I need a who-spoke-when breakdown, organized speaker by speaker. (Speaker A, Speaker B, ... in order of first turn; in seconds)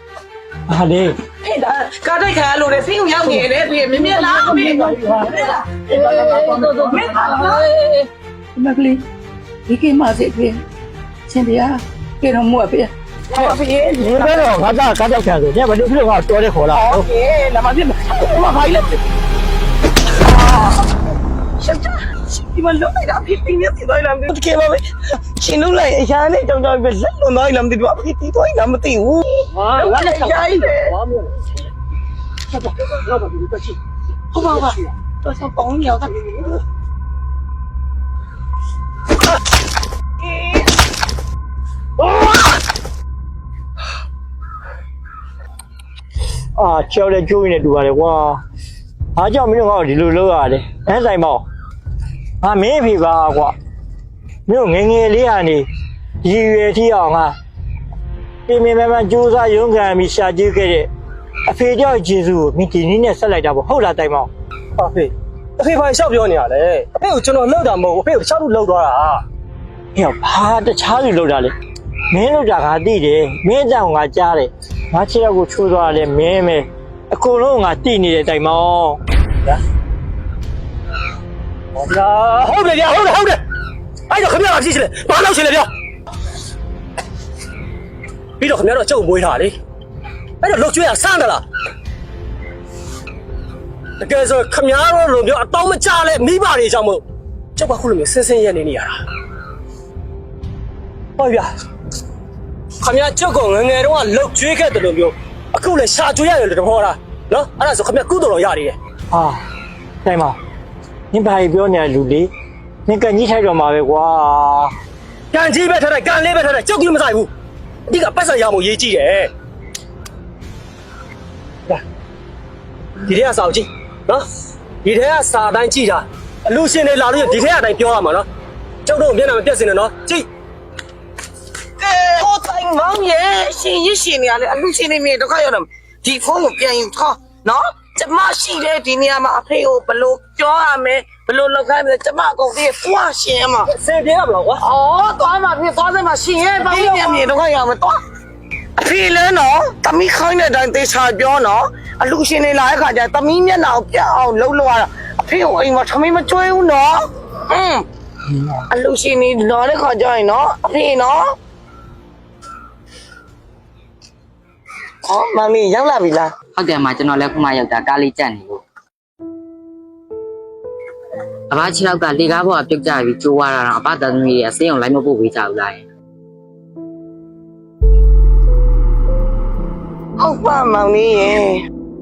Speaker A: 0.7-1.2, 14.0-17.1, 46.6-48.4, 49.2-51.4, 52.4-53.6, 54.5-55.7, 56.2-57.4, 58.5-60.9, 61.5-64.3, 70.0-71.5, 72.1-79.0, 109.1-109.4, 110.0-110.4, 111.1-112.3, 112.9-114.7
Speaker B: 1.4-7.8, 13.3-14.6, 16.7-19.0, 20.2-20.9, 21.6-31.0, 34.3-36.6, 40.2-40.7, 131.8-143.7, 144.6-148.0, 148.8-157.8, 158.5-161.3, 165.1-166.3, 180.2-181.6
Speaker C: 4.0-8.0, 8.6-9.0, 9.7-10.6, 11.3-12.9
Speaker D: 29.5-31.4, 32.5-33.8, 64.8-69.2, 81.8-83.4, 84.1-85.7, 88.4-89.6, 90.4-91.4, 94.0-97.0, 97.6-99.0, 101.2-101.5, 102.8-108.8, 115.3-117.3, 117.9-119.3, 123.0-124.3, 124.8-128.3, 128.8-130.3, 143.7-144.6, 146.7-147.2
Speaker E: 166.5-168.6, 171.5-175.8